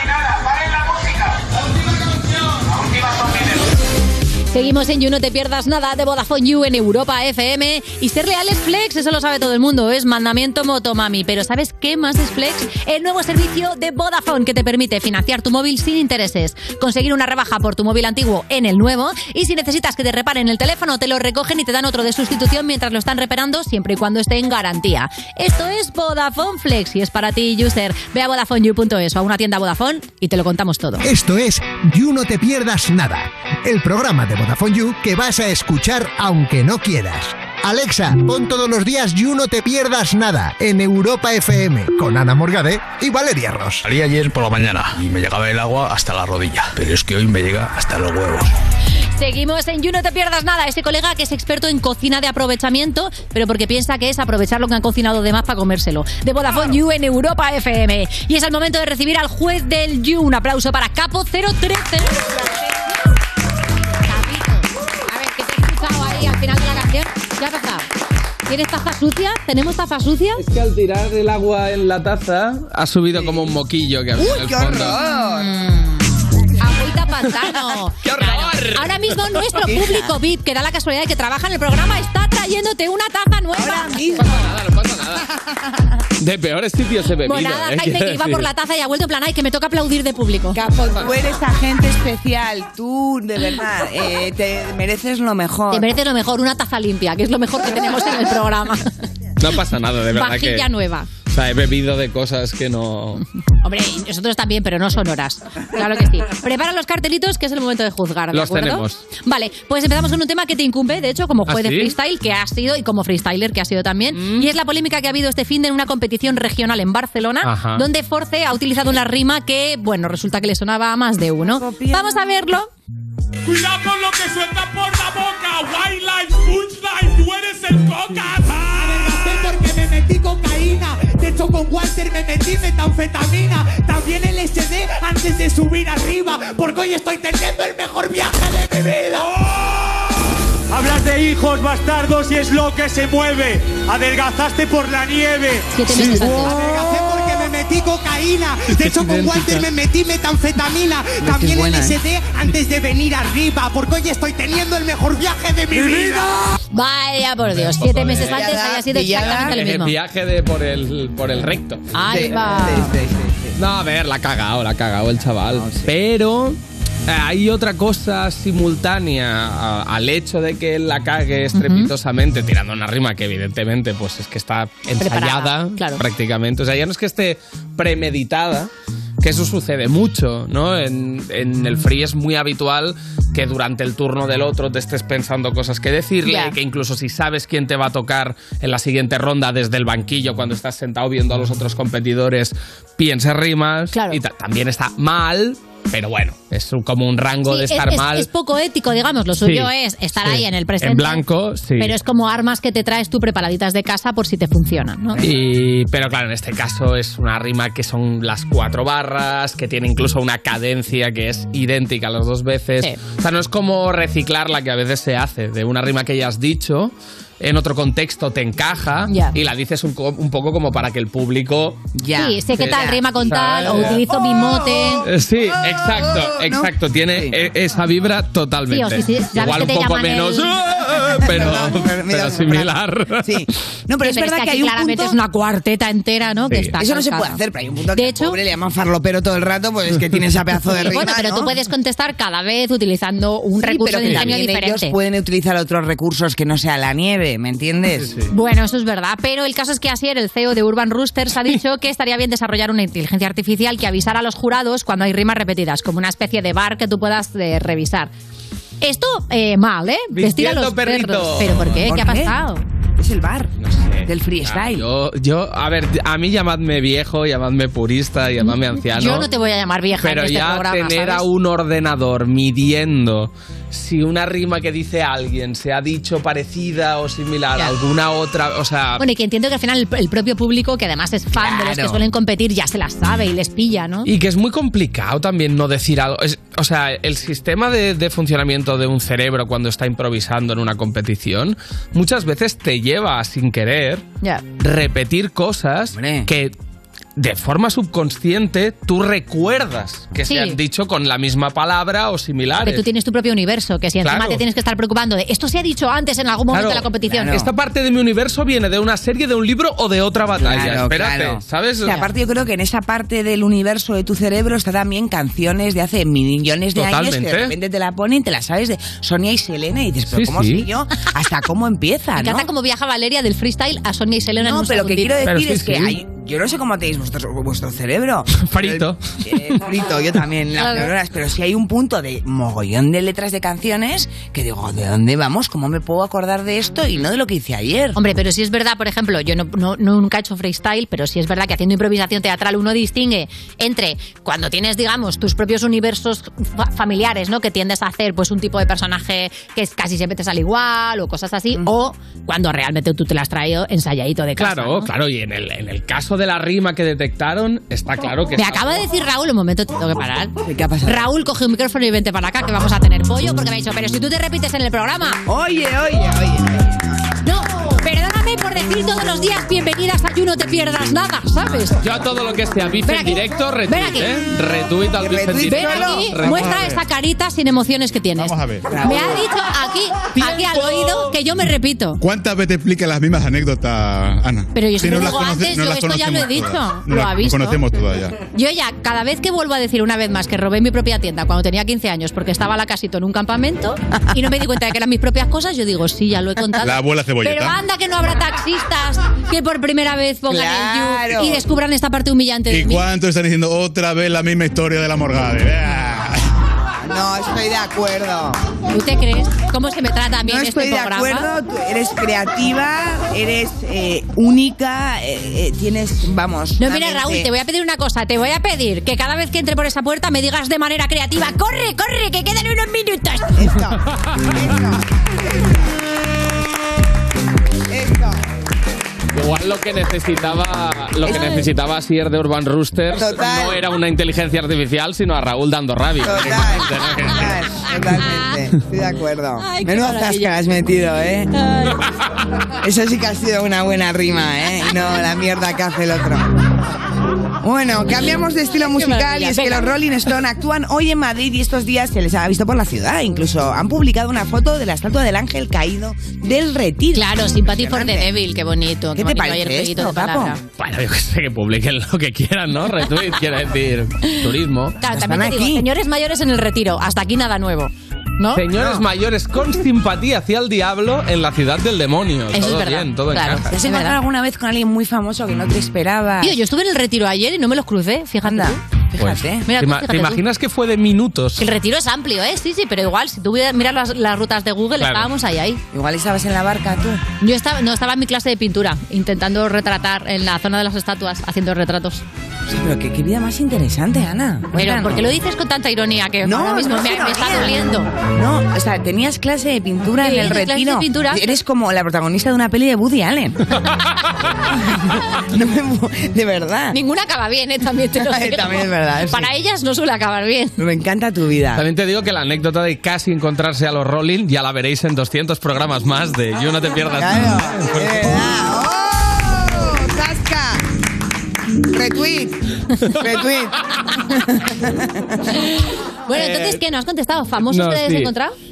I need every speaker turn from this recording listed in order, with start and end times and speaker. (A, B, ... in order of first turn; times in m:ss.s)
0:04.5-0:31.0 A
0:31.0-0:43.8 B
0:43.8-0:48.5 C
0:49.2-1:02.4 A
1:04.0-1:07.9 A
1:08.5-1:10.4 A
1:10.4-1:15.0 D
1:13.1-1:13.5 E
1:14.2-1:15.6 E
1:15.0-1:24.3 A
1:18.0-1:19.4 D
1:19.6-1:20.2 E
1:23.5-1:24.5 E
1:24.2-1:25.2 D
1:26.2-1:28.5 D
1:27.2-1:30.6 A
1:30.5-1:35.9 E
1:35.7-1:38.9 A
1:39.4-1:40.7 D
1:40.1-1:41.1 A
1:41.3-1:43.2 D
1:43.6-2:02.7 A
1:48.3-1:49.0 D
1:51.5-1:52.0 D
1:54.1-1:54.5 D
1:57.4-1:57.9 D
2:01.4-2:02.2 E
2:04.2-2:05.0 F
2:06.4-2:07.2 F
2:08.4-2:19.1 F
2:20.7-2:25.7 F
2:25.7-2:26.6 A
2:26.7-2:36.2 F
2:28.7-2:29.7 D
2:31.2-2:32.0 E
2:35.7-2:36.6 E
2:36.7-2:39.9 A
2:37.5-2:38.5 D
2:38.1-2:39.6 E
2:39.1-2:41.9 D
2:41.9-2:42.9 A
2:42.0-2:43.6 E
2:43.6-2:58.7 D
2:45.1-2:46.0 E
2:51.5-2:51.9 A
2:55.0-2:56.0 A
2:59.2-3:18.3 D
3:06.2-3:06.6 A
3:13.9-3:14.2 A
3:17.5-3:21.2 A
3:19.4-3:22.0 D
3:21.8-3:25.3 A
3:25.2-3:41.8 D
3:39.1-3:39.4 A
3:41.9-3:43.0 E
3:42.2-3:45.1 A
3:42.6-3:44.0 D
3:45.0-3:53.3 D
3:46.2-3:47.4 E
3:48.7-3:50.6 A
3:51.2-3:55.2 E
3:54.0-3:57.4 A
3:56.7-4:01.5 E
3:58.0-3:58.4 A
4:00.9-4:05.0 A
4:03.6-4:08.2 E
4:04.0-4:04.4 D
4:08.0-4:08.3 D
4:08.3-4:18.1 A
4:18.8-4:22.6 A
4:20.1-4:21.9 D
4:21.6-4:22.4 E
4:23.0-4:24.9 E
4:23.6-4:29.3 D
4:28.4-4:31.3 A
4:30.0-4:39.0 D
4:39.0-4:44.1 A
4:41.4-4:42.0 E
4:44.0-4:54.0 D
4:54.6-4:56.5 D
4:55.9-4:56.3 E
4:57.2-5:02.9 D
5:00.2-5:00.6 A
5:02.6-5:07.4 A
5:04.0-5:04.4 D
5:06.5-5:12.0 D
5:07.1-5:07.5 E
5:10.4-5:22.5 E
5:16.8-5:17.5 D
5:20.1-5:20.7 D
5:22.2-5:25.3 A
5:24.4-5:38.0 E
5:25.2-5:26.0 D
5:28.4-5:29.0 D
5:30.6-5:30.9 A
5:38.0-5:54.9 A
5:54.4-5:58.8 D
5:58.4-6:00.3 A
6:00.4-6:01.1 E
6:00.8-6:05.2 A
6:05.3-6:06.9 E
6:07.2-6:11.9 A
6:11.8-6:16.5 D
6:12.9-6:14.1 A
6:15.0-6:16.4 E
6:15.5-6:22.0 A
6:16.3-6:16.8 G
6:18.2-6:18.7 G
6:18.7-6:19.3 E
6:20.2-6:21.1 D
6:22.0-6:28.2 G
6:24.5-6:27.6 A
6:28.3-6:42.9 A
6:36.6-6:37.6 G
6:40.3-6:41.4 E
6:42.5-6:46.2 G
6:46.8-6:48.4 E
6:48.7-6:51.3 A
6:50.2-6:57.3 E
6:56.6-7:03.6 A
7:03.3-7:05.6 E
7:07.7-7:08.2 E
7:09.1-7:17.4 D
7:11.0-7:11.5 E
7:11.1-7:11.5 A
7:12.9-7:13.6 E
7:16.0-7:21.4 E
7:17.6-7:18.4 A
7:19.4-7:20.4 A
7:21.4-7:21.8 A
7:22.6-7:26.4 E
7:27.4-7:38.1 E
7:28.6-7:29.7 A
7:36.9-7:40.4 A
7:39.0-7:40.4 E
7:40.6-7:44.8 D
7:44.8-7:48.5 A
7:44.9-7:45.7 E
7:48.4-7:53.4 D
7:48.5-7:48.9 E
7:52.3-7:54.0 A
7:53.4-7:56.4 E
7:56.2-7:58.6 A
7:58.2-7:59.5 E
7:59.0-8:01.4 D
7:59.5-8:00.2 A
8:01.4-8:05.6 A
8:04.8-8:05.1 D
8:05.7-8:07.0 E
8:07.2-8:12.0 A
8:12.5-8:15.1 E
8:14.5-8:17.9 A
8:16.2-8:23.4 E
8:20.0-8:21.3 A
8:24.5-8:26.8 E
8:26.7-8:30.6 A
8:28.0-8:29.3 E
8:30.6-8:31.6 E
8:31.6-8:38.2 D
8:37.0-8:40.6 E
8:41.6-8:45.2 E
8:45.4-8:48.3 A
8:46.1-8:46.6 D
8:47.4-8:48.1 D